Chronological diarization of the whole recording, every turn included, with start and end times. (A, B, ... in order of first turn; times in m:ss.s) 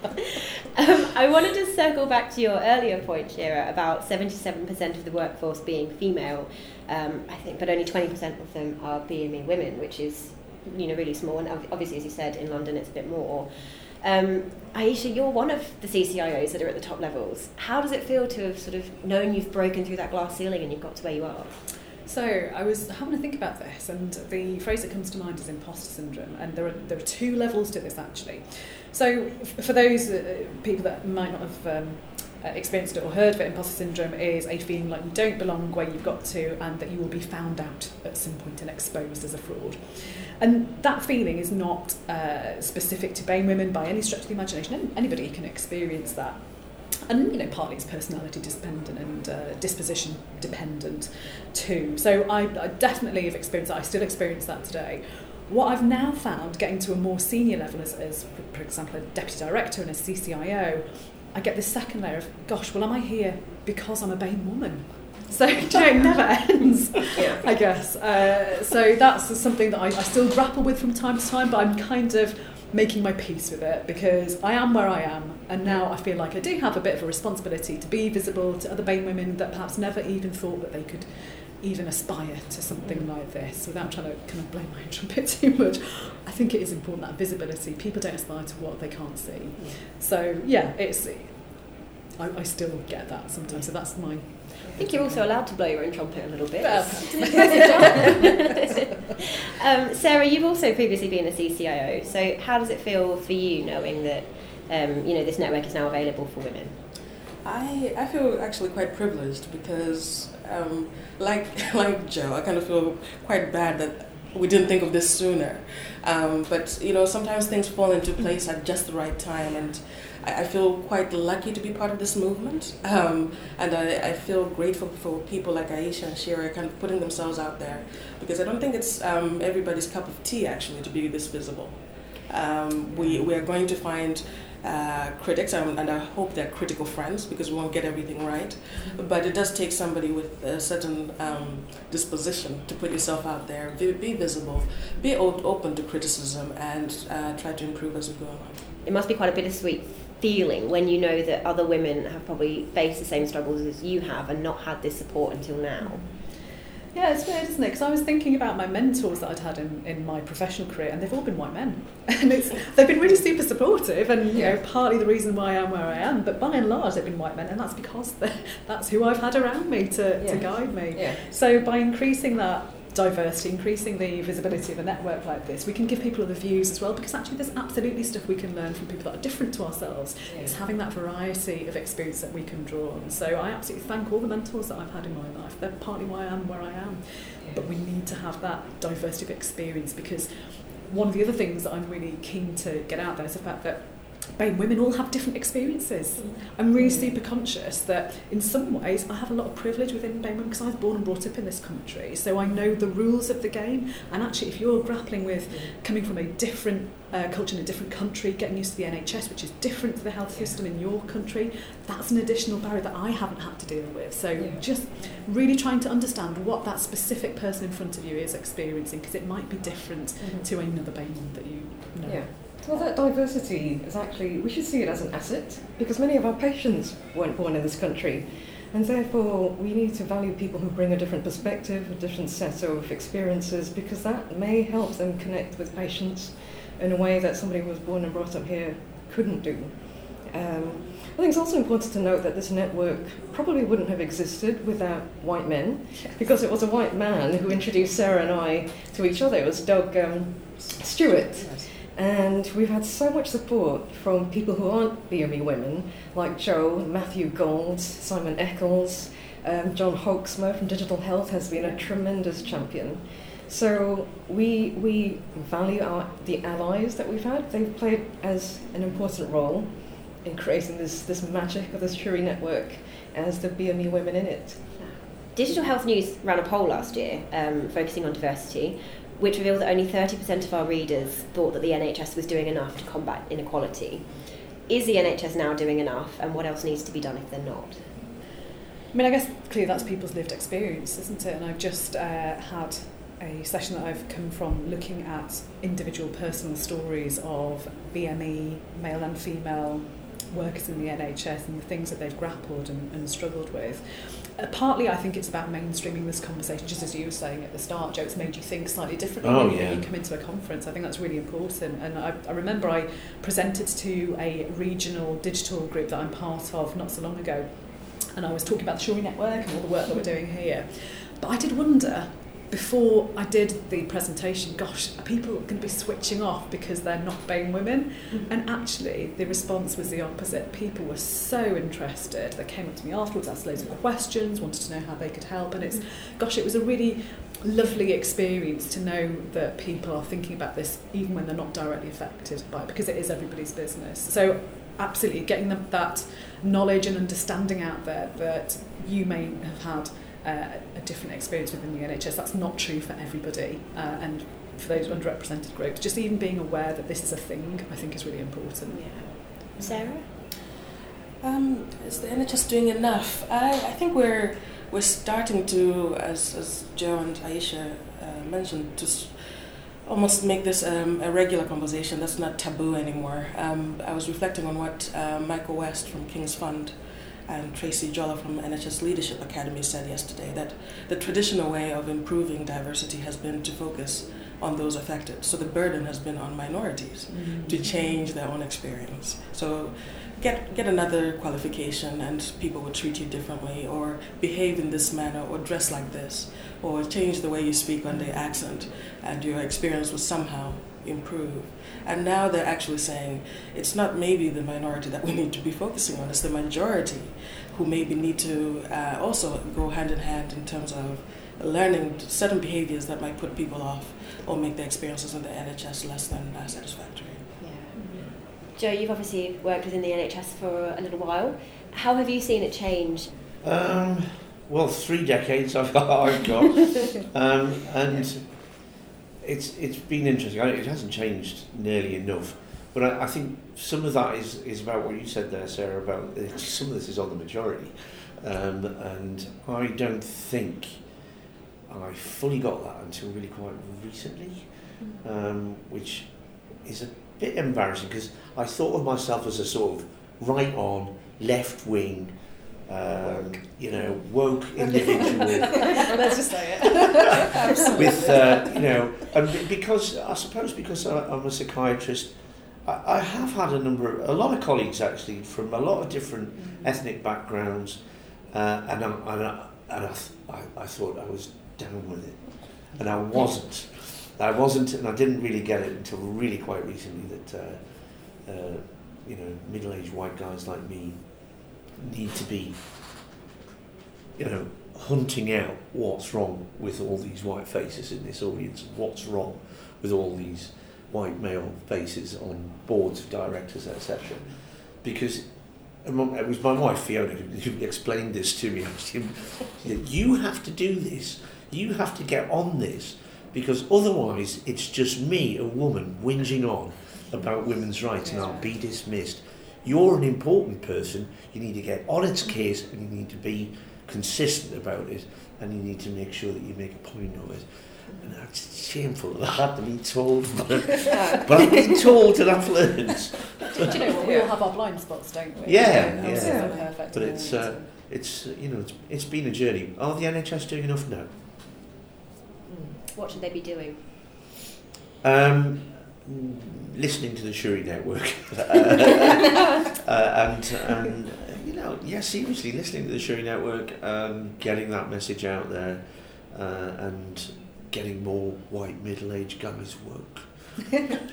0:00.8-0:21.6 A
0:22.0-1:35.3 B
1:22.8-1:23.1 A
1:33.5-1:34.2 A
1:34.7-1:38.2 A
1:36.6-1:38.7 B
1:39.6-1:46.7 A
1:47.4-2:28.7 C
2:12.9-2:13.3 B
2:28.8-2:36.0 A
2:35.8-2:36.3 B
2:36.9-3:42.5 B
2:44.3-2:44.6 D
2:50.2-2:51.3 D
3:00.2-3:00.6 D
3:07.4-3:07.6 D
3:16.2-3:17.1 A
3:16.7-3:17.1 D
3:25.5-3:25.8 D
3:34.3-3:34.8 D
3:40.2-3:40.5 D
3:42.0-4:35.7 D
4:10.6-4:11.7 C
4:34.8-4:47.8 A
4:48.9-5:59.9 B
5:09.2-5:09.9 E
5:58.7-6:00.0 A
6:01.2-6:57.3 C
6:27.1-6:27.9 B
6:57.4-7:03.1 A
6:57.7-6:58.1 B
7:03.4-7:20.9 E
7:21.7-7:35.9 E
7:33.0-7:33.4 B
7:34.6-7:38.5 B
7:37.6-7:37.9 D
7:37.7-8:03.0 E
7:46.4-7:46.7 B
8:04.2-8:43.6 E
8:28.0-8:28.4 B
8:40.8-8:41.5 D
8:43.6-8:47.7 B
8:43.6-8:44.3 A
8:44.0-8:44.5 D
8:45.4-8:46.8 D
8:45.4-8:51.2 E
8:52.5-8:52.8 D
8:52.9-8:53.8 A
8:55.0-9:10.8 E